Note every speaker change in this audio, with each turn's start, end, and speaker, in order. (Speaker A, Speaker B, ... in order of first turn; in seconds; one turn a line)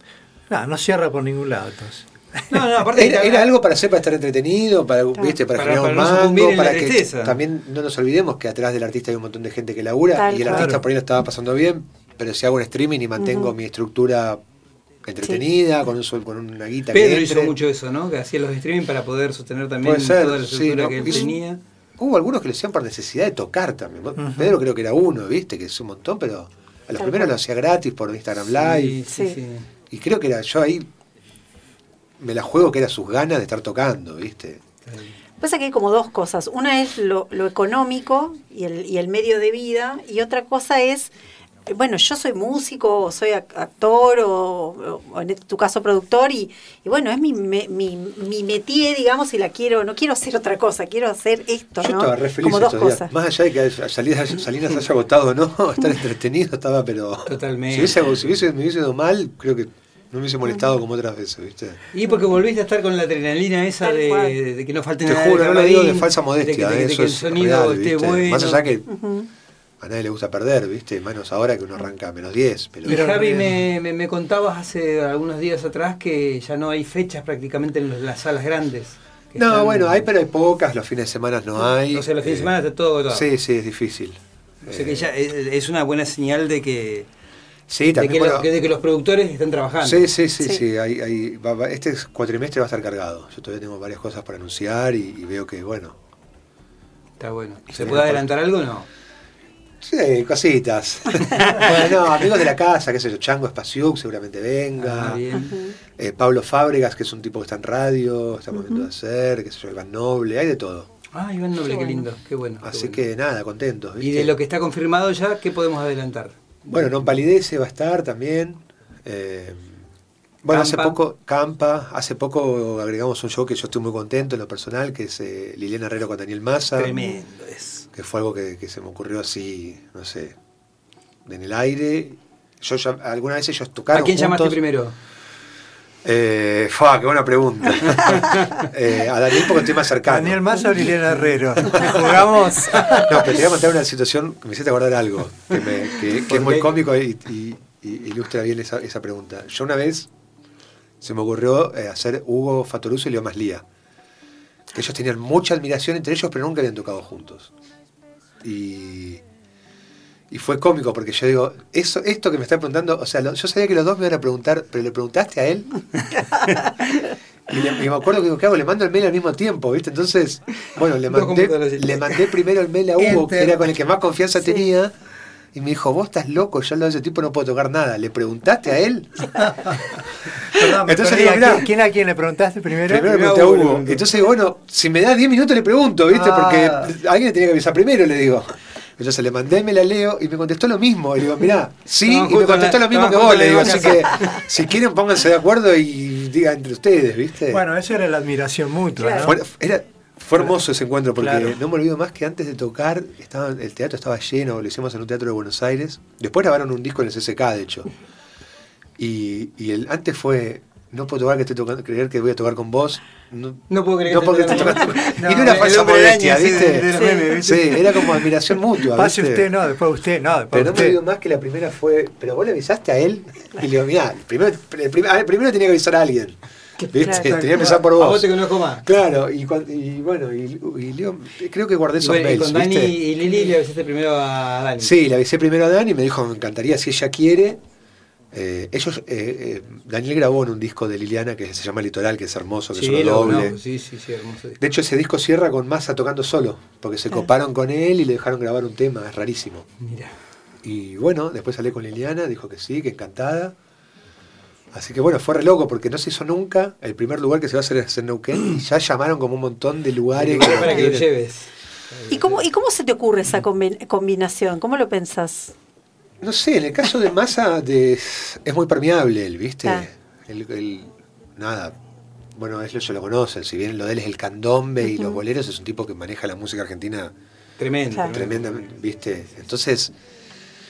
Speaker A: 0.5-2.6
Speaker B: 2.5-3.5
Speaker C: 2.9-14.4
Speaker B: 5.5-7.4
Speaker D: 10.2-10.7
Speaker A: 10.4-10.8
Speaker D: 13.2-13.5
Speaker C: 15.0-17.5
Speaker B: 16.9-21.6
Speaker C: 19.8-21.3
Speaker D: 21.0-21.3
Speaker C: 22.0-29.0
Speaker A: 24.2-24.6
Speaker D: 27.0-27.4
Speaker B: 28.5-29.7
Speaker D: 29.1-29.4
Speaker C: 29.9-30.9
Speaker C: 32.2-34.6
Speaker B: 34.9-35.2
Speaker D: 35.4-41.1
Speaker D: 41.7-53.1
Speaker C: 51.8-61.8
Speaker B: 57.2-58.2
Speaker B: 61.9-68.7
Speaker D: 63.8-64.3
Speaker C: 65.0-68.9
Speaker D: 68.9-69.3
Speaker C: 69.8-73.1
Speaker B: 72.8-80.0
Speaker A: 72.9-73.6
Speaker C: 79.3-82.5
Speaker B: 81.9-83.3
Speaker C: 83.1-85.1
Speaker B: 84.7-87.1
Speaker C: 87.7-88.5
Speaker B: 87.9-90.1
Speaker C: 89.8-96.0
Speaker B: 97.2-98.9
Speaker C: 97.7-98.3
Speaker C: 99.8-105.2
Speaker B: 104.8-105.6
Speaker D: 105.3-105.8
Speaker C: 106.0-110.9
Speaker D: 108.6-108.9
Speaker B: 111.1-113.0
Speaker D: 111.6-112.0
Speaker C: 112.6-114.3
Speaker B: 114.0-117.1
Speaker C: 116.7-119.8
Speaker C: 120.4-127.0
Speaker B: 120.5-121.0
Speaker B: 126.7-127.8
Speaker D: 126.9-127.2
Speaker C: 127.9-130.3
Speaker C: 131.2-134.6
Speaker B: 133.9-134.9
Speaker C: 136.0-140.5
Speaker B: 137.9-138.6
Speaker A: 140.0-143.2
Speaker B: 141.6-143.1
Speaker C: 141.7-142.1
Speaker C: 142.9-150.1
Speaker B: 146.2-146.8
Speaker C: 151.0-153.6
Speaker C: 154.7-157.5
Speaker C: 158.4-159.2
Speaker C: 160.3-165.7
Speaker C: 167.5-174.9
Speaker B: 171.1-172.3
Speaker A: 173.0-173.6
Speaker C: 175.5-179.8
Speaker A: 179.4-183.1
Speaker C: 180.4-181.7
Speaker C: 182.9-197.6
Speaker B: 182.9-184.1
Speaker A: 186.1-186.9
Speaker B: 192.0-194.5
Speaker A: 197.5-199.4
Speaker D: 199.0-199.3
Speaker C: 199.2-207.9
Speaker A: 201.2-201.6
Speaker C: 209.0-219.5
Speaker B: 213.7-218.3
Speaker A: 215.2-215.5
Speaker D: 216.9-217.3
Speaker A: 218.8-221.0
Speaker C: 220.5-226.4
Speaker B: 226.9-228.8
Speaker C: 226.9-228.3
Speaker D: 227.0-227.3
Speaker C: 228.8-233.0
Speaker B: 232.0-234.9
Speaker C: 234.8-237.6
Speaker C: 238.3-243.6
Speaker B: 242.7-244.6
Speaker C: 244.6-249.7
Speaker B: 249.8-250.1
Speaker C: 250.6-253.5
Speaker C: 254.7-261.1
Speaker B: 260.1-262.4
Speaker D: 260.5-260.9
Speaker D: 262.1-265.5
Speaker C: 266.2-271.7
Speaker C: 272.3-277.1
Speaker D: 274.8-275.2
Speaker B: 277.6-278.6
Speaker C: 278.1-279.9